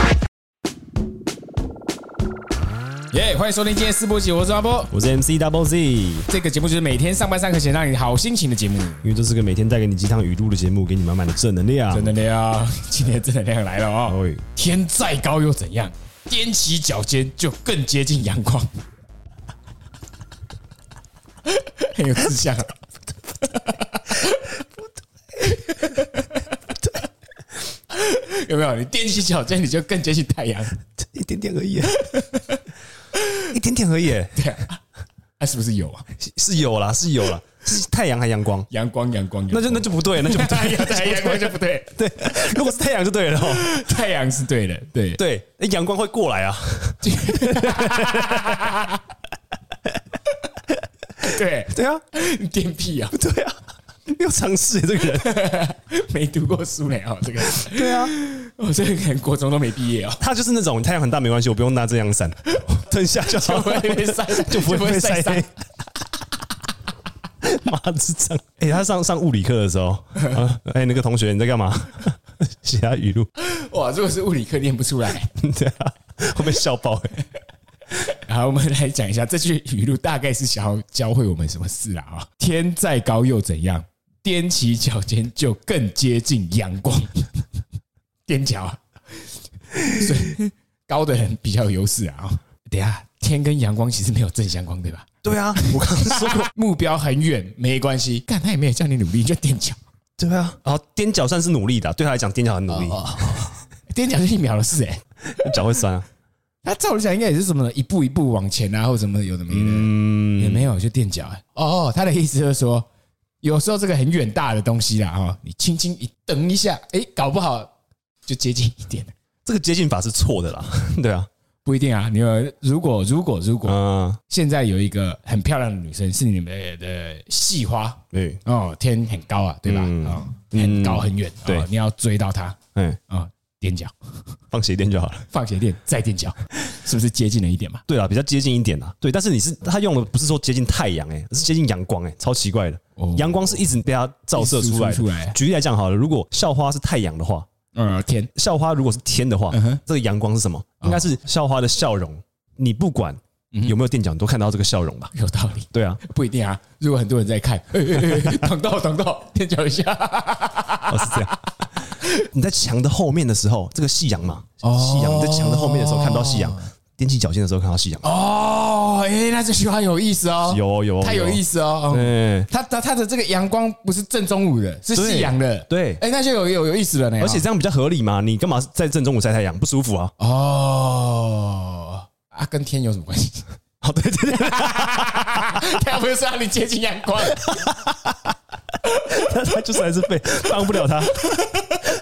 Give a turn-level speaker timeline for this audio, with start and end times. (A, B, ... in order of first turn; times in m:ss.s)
0:03.1-0:04.9 A
0:04.9-0:06.3 B
0:06.3-0:09.0 A
0:09.0-0:12.2 B
0:11.9-0:18.7 A
0:14.1-0:14.4 B
0:21.4-0:22.8 A
0:23.4-0:24.6 A
0:25.4-0:26.4 A
0:27.9-0:30.8 A
0:31.0-0:32.0 B
0:32.0-0:32.6 A
0:33.5-0:34.5 B
0:34.4-0:34.8 A
0:35.4-0:36.0 A
0:36.2-0:38.7 B
0:38.7-0:42.4 A
0:39.5-0:43.9 B
0:43.4-0:45.2 A
0:45.2-0:48.7 B
0:47.0-0:49.0 A
0:51.2-0:53.2 A
0:51.7-0:52.0 B
0:53.1-0:55.3 B
0:55.1-1:00.2 A
0:57.5-0:58.1 B
1:00.2-1:05.5 B
1:02.5-1:05.5 A
1:07.4-1:13.3 B
1:13.4-1:15.3 A
1:15.4-1:17.2 B
1:18.0-1:27.4 A
1:28.2-1:28.8 A
1:29.7-1:39.8 A
1:35.2-1:36.5 B
1:40.2-1:43.5 B
1:42.7-1:45.0 A
1:45.4-1:46.0 B
1:46.6-1:52.8 A
1:49.5-1:50.7 B
1:53.4-1:57.7 A
1:58.2-1:59.1 A
1:59.4-2:01.3 B
2:01.6-2:13.9 A
2:03.6-2:04.2 B
2:08.1-2:08.4 B
2:09.6-2:11.7 B
2:14.5-2:15.2 B
2:15.3-2:17.8 A
2:17.9-2:27.5 B
2:23.0-2:23.6 A
2:24.3-2:25.4 A
2:27.7-2:28.3 A
2:28.4-2:35.1 B
2:29.5-2:29.8 A
2:30.8-2:31.1 A
2:35.1-2:41.3 A
2:35.7-2:36.0 B
2:38.0-2:38.4 B
2:40.9-2:41.3 B
2:42.2-2:48.1 B
2:44.6-2:46.7 A
2:48.0-2:57.5 A
2:50.4-2:52.5 B
2:54.9-2:56.0 B
2:57.2-3:00.1 B
3:00.2-3:03.5 A
3:03.8-3:05.6 B
3:04.4-3:07.6 A
3:07.4-3:08.1 B
3:09.0-3:11.4 B
3:10.6-3:11.7 A